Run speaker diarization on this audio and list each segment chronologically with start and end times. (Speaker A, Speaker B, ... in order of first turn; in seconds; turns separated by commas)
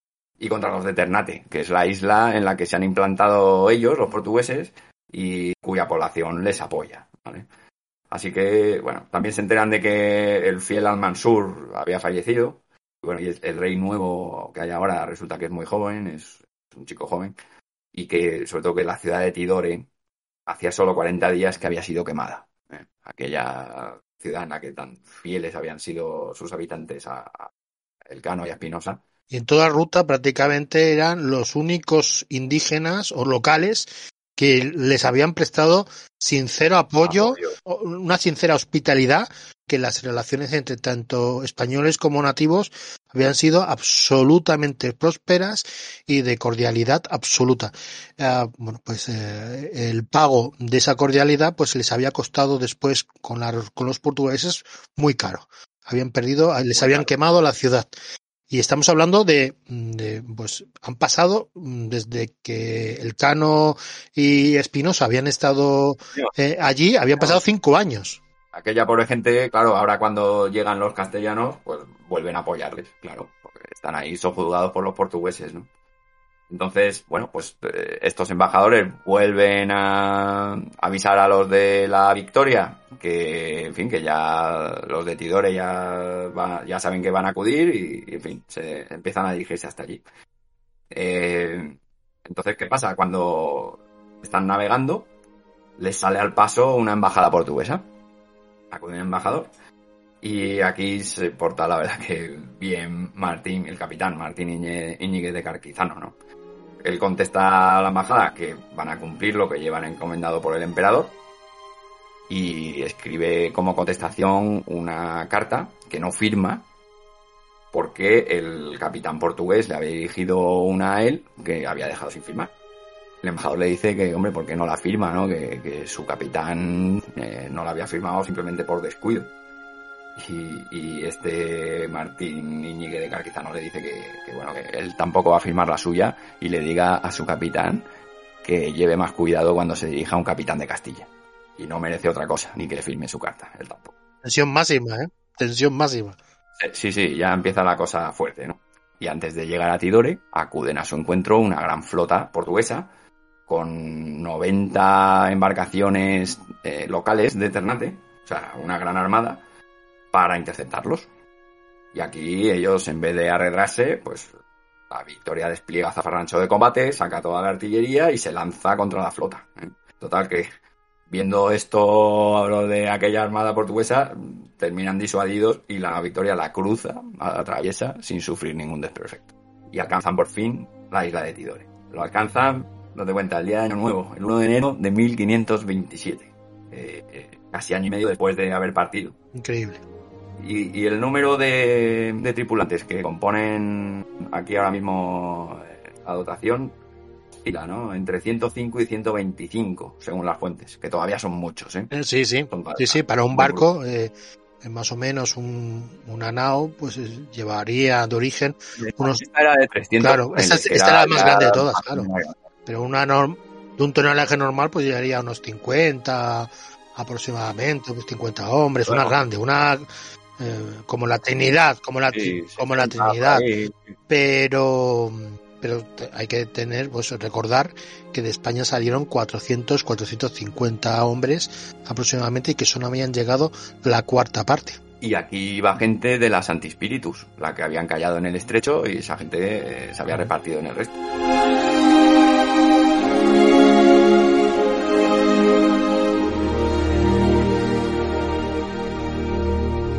Speaker A: 0.4-7.5, Speaker A: 8.1-17.3, Speaker A: 17.9-19.9, Speaker A: 20.5-27.5, Speaker A: 28.1-29.0, Speaker B: 29.3-57.9, Speaker A: 37.0-37.5, Speaker A: 56.7-57.1, Speaker B: 58.5-68.2, Speaker A: 68.5-75.7, Speaker A: 76.5-90.0, Speaker A: 90.9-95.1, Speaker A: 95.8-97.8, Speaker A: 98.7-99.5, Speaker A: 100.2-106.1, Speaker A: 106.8-111.1, Speaker A: 112.3-116.6, Speaker A: 117.7-122.5, Speaker A: 123.2-129.3, Speaker A: 130.2-137.8, Speaker A: 138.4-143.9, Speaker B: 144.2-146.2, Speaker A: 146.6-152.9, Speaker A: 153.5-159.4, Speaker A: 160.1-161.1, Speaker A: 161.9-164.3, Speaker A: 164.9-170.5, Speaker A: 171.1-189.1, Speaker B: 189.3-189.8, Speaker A: 190.4-196.7, Speaker A: 197.4-201.9, Speaker B: 201.9-209.2, Speaker A: 202.5-203.6, Speaker A: 208.8-212.3, Speaker B: 210.0-212.1, Speaker B: 212.7-219.8, Speaker A: 218.8-219.1, Speaker B: 220.4-223.5, Speaker A: 222.1-223.9, Speaker B: 224.1-234.8, Speaker A: 235.0-240.9